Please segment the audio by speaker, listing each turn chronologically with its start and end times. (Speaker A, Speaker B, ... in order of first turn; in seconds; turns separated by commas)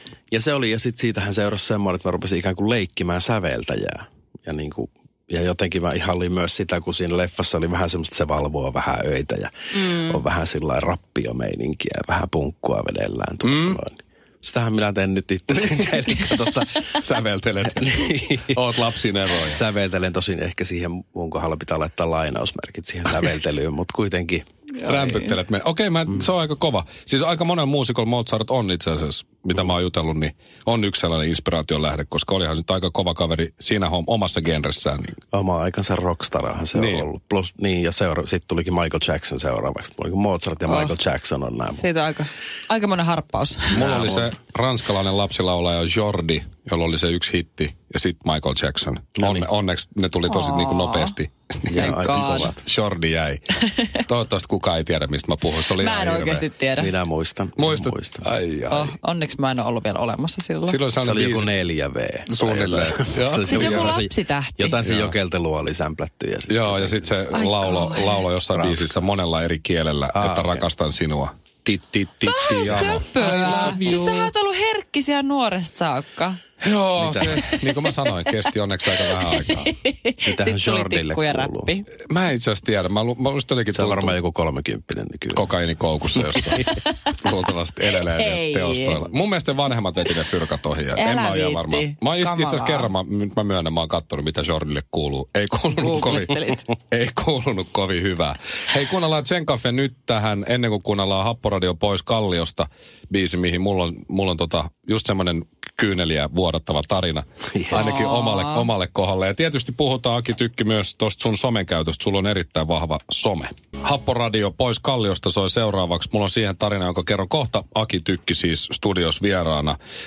Speaker A: 0.3-16.9, Speaker B: 9.7-10.2, Speaker C: 13.4-13.8, Speaker C: 15.7-16.0, Speaker C: 17.0-19.6, Speaker A: 17.6-18.6, Speaker A: 19.4-24.4, Speaker C: 24.9-35.2, Speaker B: 24.9-25.3, Speaker A: 35.3-41.9, Speaker C: 36.8-37.1, Speaker B: 40.7-40.9, Speaker B: 41.8-44.1, Speaker C: 43.7-53.4, Speaker A: 43.7-44.3, Speaker A: 49.2-49.5, Speaker B: 50.3-51.1, Speaker A: 51.7-52.6, Speaker B: 51.7-52.5, Speaker C: 54.1-56.5, Speaker B: 55.7-56.9, Speaker A: 56.8-58.2, Speaker C: 57.6-58.9, Speaker B: 58.7-60.8, Speaker C: 60.7-61.4, Speaker A: 61.0-67.2, Speaker C: 62.3-63.8, Speaker B: 63.5-64.8, Speaker C: 64.9-65.1, Speaker C: 66.5-74.3, Speaker B: 67.3-68.2, Speaker A: 68.5-69.1, Speaker A: 70.1-70.7, Speaker B: 72.2-76.4, Speaker A: 73.5-74.0, Speaker C: 76.6-79.7, Speaker A: 77.0-77.4, Speaker B: 77.3-77.9, Speaker B: 79.0-81.9, Speaker A: 80.2-81.7, Speaker C: 82.1-84.2, Speaker A: 83.7-85.5, Speaker C: 85.3-86.6, Speaker A: 86.2-86.6, Speaker B: 86.5-87.0, Speaker C: 87.2-96.3, Speaker B: 88.0-89.0, Speaker B: 90.9-92.9, Speaker B: 95.7-96.7, Speaker C: 96.9-107.2, Speaker A: 107.5-108.1, Speaker B: 107.7-108.7, Speaker C: 107.8-119.8